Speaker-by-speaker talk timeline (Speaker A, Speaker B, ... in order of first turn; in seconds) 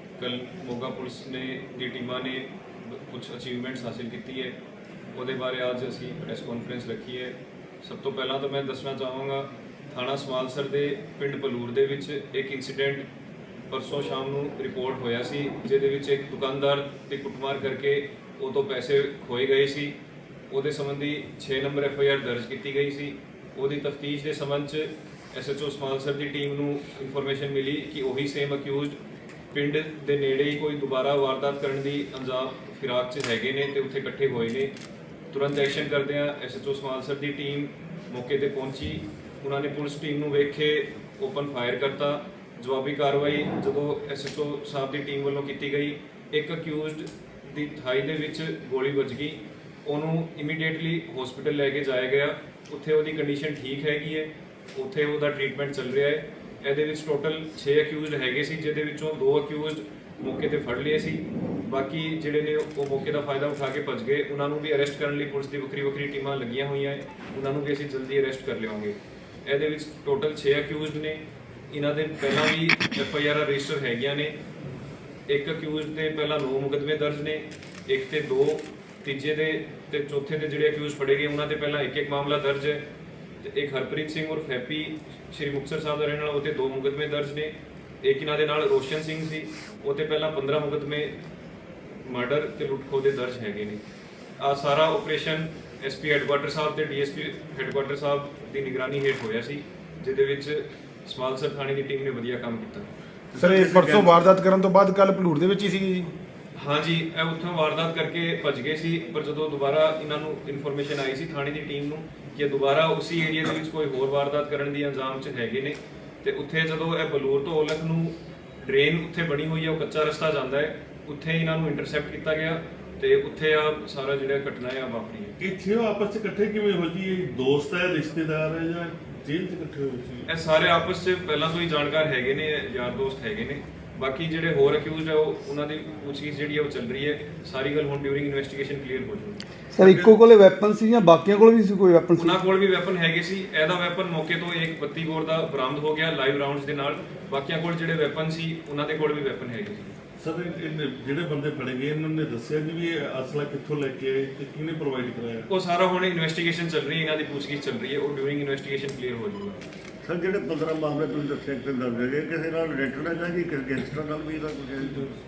Speaker A: 0.2-4.6, 5.1-13.1, 13.7-20.0, 20.5-29.0, 29.5-34.7, 35.3-74.3, 75.3-82.8, 83.4-91.2, 92.0-93.8, 94.4-102.9, 106.6-125.4, 130.3-139.4, 142.2-150.0, 155.5-159.6
Speaker B: 103.3-104.2, 160.0-165.2
Speaker C: 103.4-106.1
Speaker D: 125.4-130.3, 150.2-155.5
Speaker E: 139.7-142.4